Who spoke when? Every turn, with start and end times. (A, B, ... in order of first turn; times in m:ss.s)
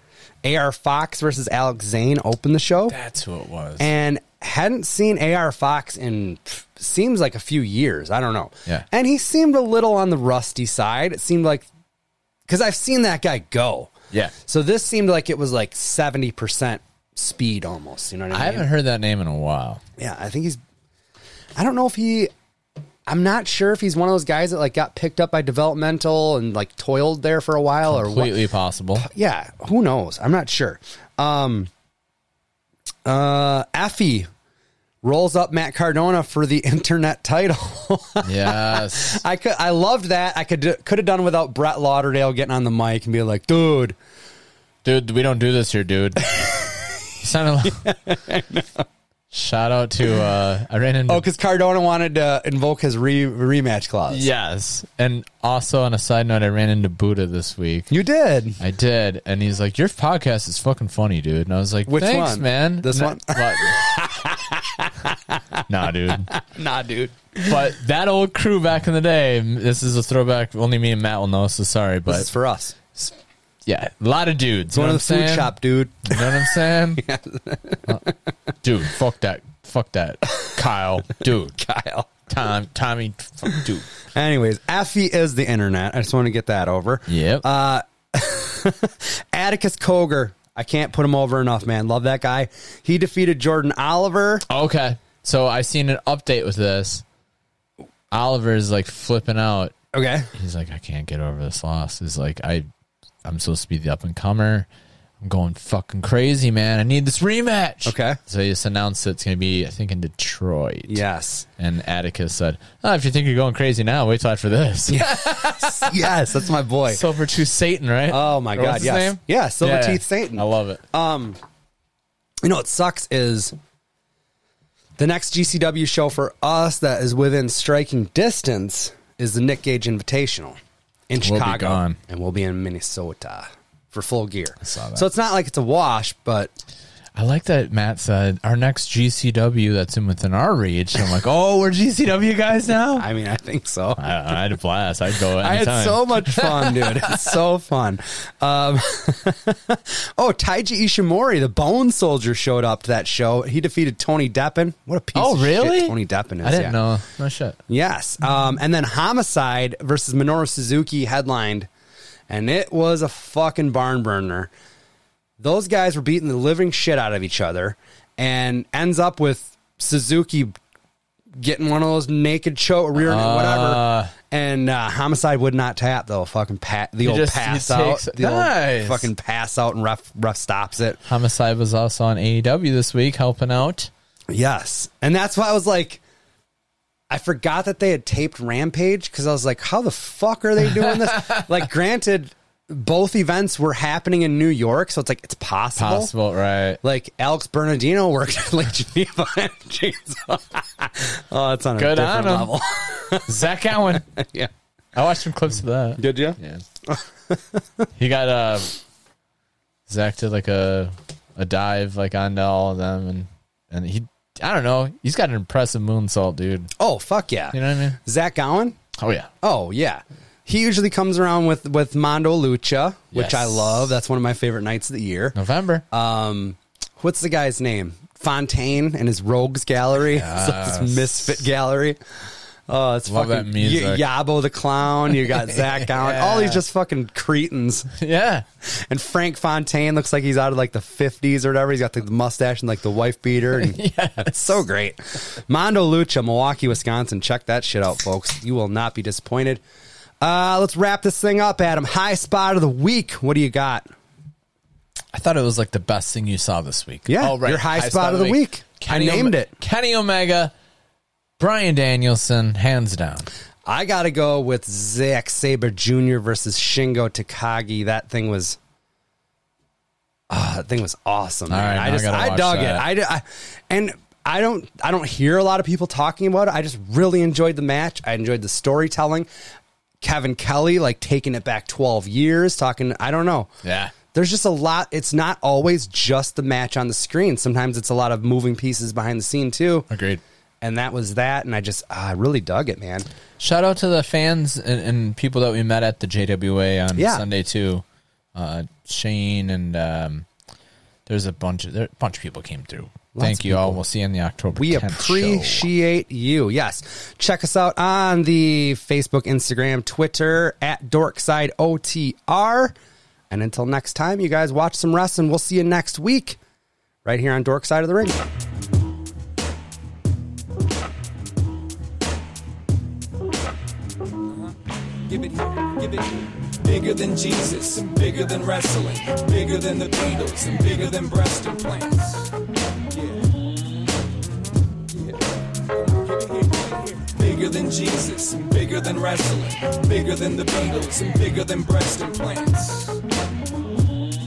0:00.4-0:03.0 A
0:02.9-0:03.9 B
0:03.8-0:11.7 A
0:12.5-0:13.9 A
0:14.4-0:18.7 A
0:18.3-0:19.8 B
0:20.0-0:20.6 A
0:21.6-0:22.3 A
0:23.1-0:28.4 A
0:27.9-0:29.1 B
0:29.0-0:31.7 A
0:33.0-0:34.3 A
0:35.0-0:44.0 A
0:38.2-0:39.2 B
0:44.8-0:46.5 B
0:47.2-0:47.9 B
0:47.8-0:48.8 A
0:49.3-0:51.2 B
0:51.1-0:54.3 A
0:54.1-0:57.9 B
0:57.9-0:58.6 A
0:58.6-1:04.0 B
1:01.9-1:05.6 A
1:05.7-1:06.3 B
1:06.3-1:07.6 A
1:07.4-1:12.3 B
1:12.1-1:12.8 A
1:13.7-1:17.0 B
1:14.7-1:16.3 A
1:17.0-1:18.0 A
1:18.6-1:21.6 B
1:21.6-1:22.1 A
1:22.3-1:23.9 B
1:24.1-1:34.5 A
1:27.1-1:27.5 B
1:34.5-1:37.0 B
1:38.1-1:39.7 B
1:39.9-1:40.3 A
1:40.3-1:42.7 B
1:43.2-1:44.7 B
1:45.2-1:51.0 B
1:47.8-1:48.2 A
1:50.9-1:51.5 A
1:51.6-1:56.2 B
1:54.9-1:57.0 A
1:56.9-2:00.8 B
1:58.1-2:01.4 A
2:02.4-2:03.6 A
2:05.0-2:10.6 A
2:11.1-2:16.5 A
2:11.2-2:12.0 B
2:14.6-2:15.0 B
2:17.1-2:23.1 B
2:23.0-2:24.0 A
2:24.0-2:27.3 B
2:25.4-2:36.8 A
2:35.2-2:37.6 B
2:37.7-2:41.7 A
2:42.3-2:44.5 A
2:45.4-2:50.6 A
2:51.4-3:01.0 A
2:53.0-2:54.1 B
2:57.0-2:59.1 B
3:01.0-3:03.9 B
3:04.3-3:06.0 A
3:07.1-3:16.1 A
3:10.7-3:11.5 B
3:15.8-3:16.8 B
3:16.8-3:23.3 A
3:21.8-3:22.6 B
3:23.3-3:24.1 B
3:24.1-3:24.5 A
3:25.0-3:26.6 B
3:26.0-3:26.4 A
3:26.9-3:27.8 A
3:28.0-3:28.8 B
3:29.9-3:36.7 B
3:36.8-3:38.8 A
3:37.5-3:38.0 B
3:39.0-3:39.3 B
3:39.4-3:45.4 A
3:43.1-3:43.9 B
3:45.4-3:45.8 B
3:45.9-3:52.0 A
3:50.0-3:51.4 B
3:52.7-3:57.9 A
3:53.1-3:54.0 B
3:55.1-3:56.6 B
3:58.0-3:58.4 B
3:58.6-4:09.6 A
4:03.5-4:04.6 B
4:10.2-4:13.9 A
4:15.1-4:20.5 B
4:17.1-4:19.5 A
4:21.4-4:23.3 B
4:23.7-4:28.6 A
4:30.3-4:39.3 A
4:31.5-4:32.9 B
4:40.0-4:43.5 A
4:43.6-4:43.9 B
4:44.1-4:49.9 A
4:49.9-4:50.2 B
4:50.6-4:53.1 A
4:53.4-4:57.8 B
4:57.0-4:57.2 A
4:58.4-5:00.3 B
5:01.1-5:05.7 B
5:03.1-5:03.8 A
5:04.6-5:12.7 A
5:13.3-5:16.4 A
5:17.0-5:18.2 A
5:25.1-5:32.3 C
5:32.9-5:33.4 C
5:34.9-5:35.2 C
5:35.8-5:43.0 C